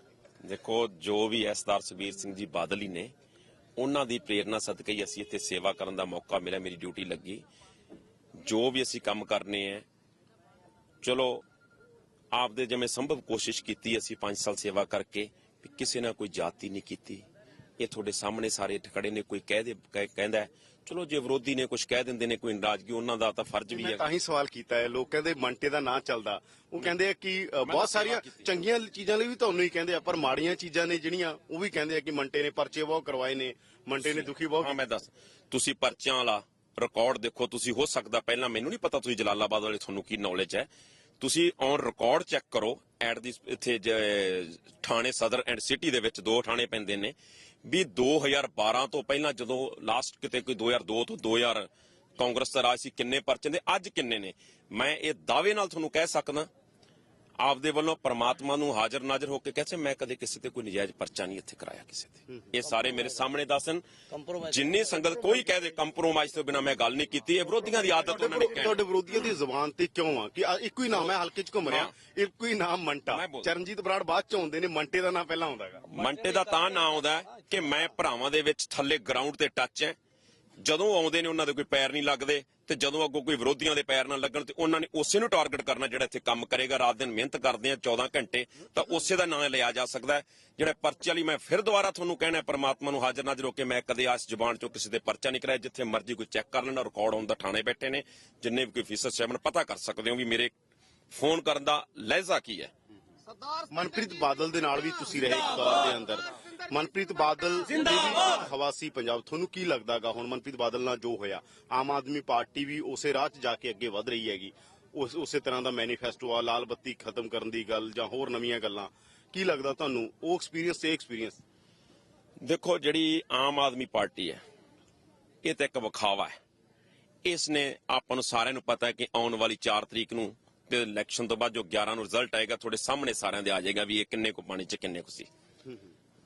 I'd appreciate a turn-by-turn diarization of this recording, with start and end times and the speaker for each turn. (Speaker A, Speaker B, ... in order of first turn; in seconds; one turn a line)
Speaker A: 0.4-3.1
Speaker A: 3.8-7.4
Speaker A: 8.4-9.8
Speaker A: 11.0-11.4
Speaker A: 12.3-17.2
Speaker A: 17.8-24.0
Speaker B: 23.7-34.8
Speaker A: 27.6-28.5
Speaker A: 34.0-40.7
Speaker A: 41.2-56.5
Speaker A: 57.4-68.8
Speaker B: 68.0-75.9
Speaker A: 71.7-71.9
Speaker A: 73.1-73.5
Speaker A: 75.9-80.0
Speaker A: 80.6-100.5
Speaker A: 101.1-102.7
Speaker B: 103.7-121.4
Speaker A: 122.4-124.4
Speaker A: 125.4-126.4
Speaker A: 127.2-135.3